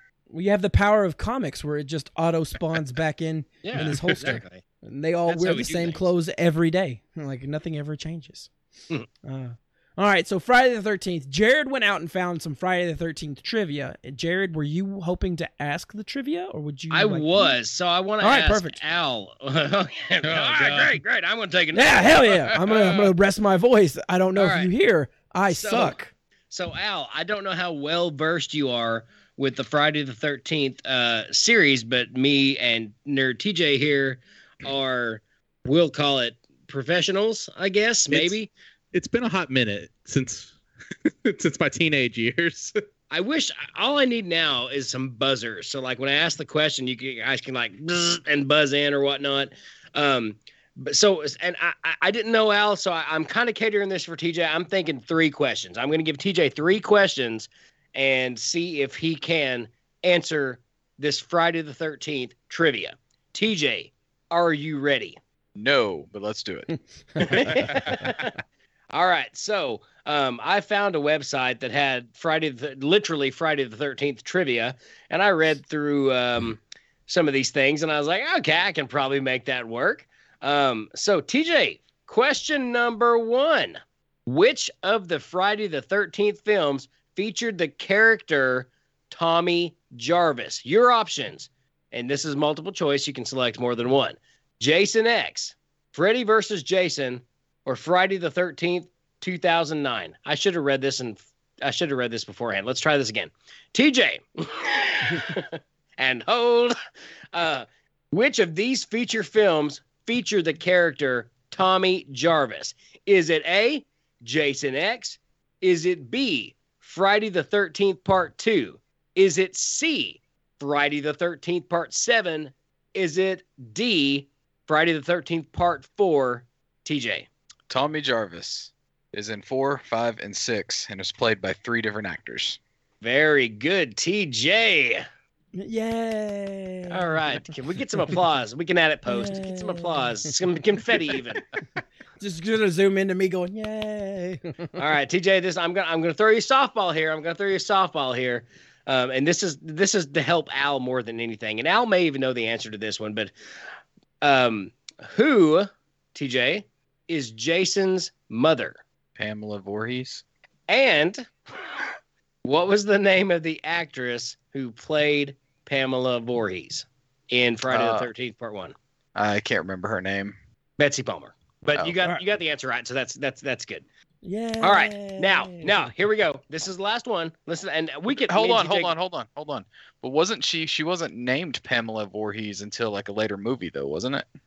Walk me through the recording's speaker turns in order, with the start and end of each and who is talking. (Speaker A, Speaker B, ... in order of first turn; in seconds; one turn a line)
Speaker A: 0.3-8.5
Speaker B: 3.6-4.6
Speaker B: 5.3-6.0
Speaker A: 9.2-17.6
Speaker B: 16.9-22.3
Speaker A: 18.2-18.8
Speaker C: 20.2-21.0
Speaker A: 21.7-26.1
Speaker B: 24.4-24.7
Speaker B: 25.5-26.0
Speaker B: 26.5-38.5
Speaker C: 38.1-38.4
Speaker C: 38.9-40.5
Speaker C: 41.1-42.7
Speaker B: 43.1-65.2
Speaker D: 65.5-67.8
Speaker A: 67.2-67.5
Speaker B: 67.3-68.3
Speaker B: 68.9-106.8
Speaker B: 107.3-127.3
Speaker D: 127.7-132.6
Speaker B: 133.0-135.1
Speaker A: 135.6-137.1
Speaker B: 136.9-141.4
Speaker A: 139.1-140.2
Speaker A: 142.2-144.7
Speaker B: 144.8-153.3
Speaker B: 154.2-158.8
Speaker D: 159.2-160.2
Speaker B: 160.7-161.3
Speaker B: 162.4-168.7
Speaker D: 167.7-168.1
Speaker D: 169.2-170.4
Speaker B: 170.8-173.8
Speaker A: 174.2-175.8
Speaker B: 174.6-178.9
Speaker D: 178.3-184.3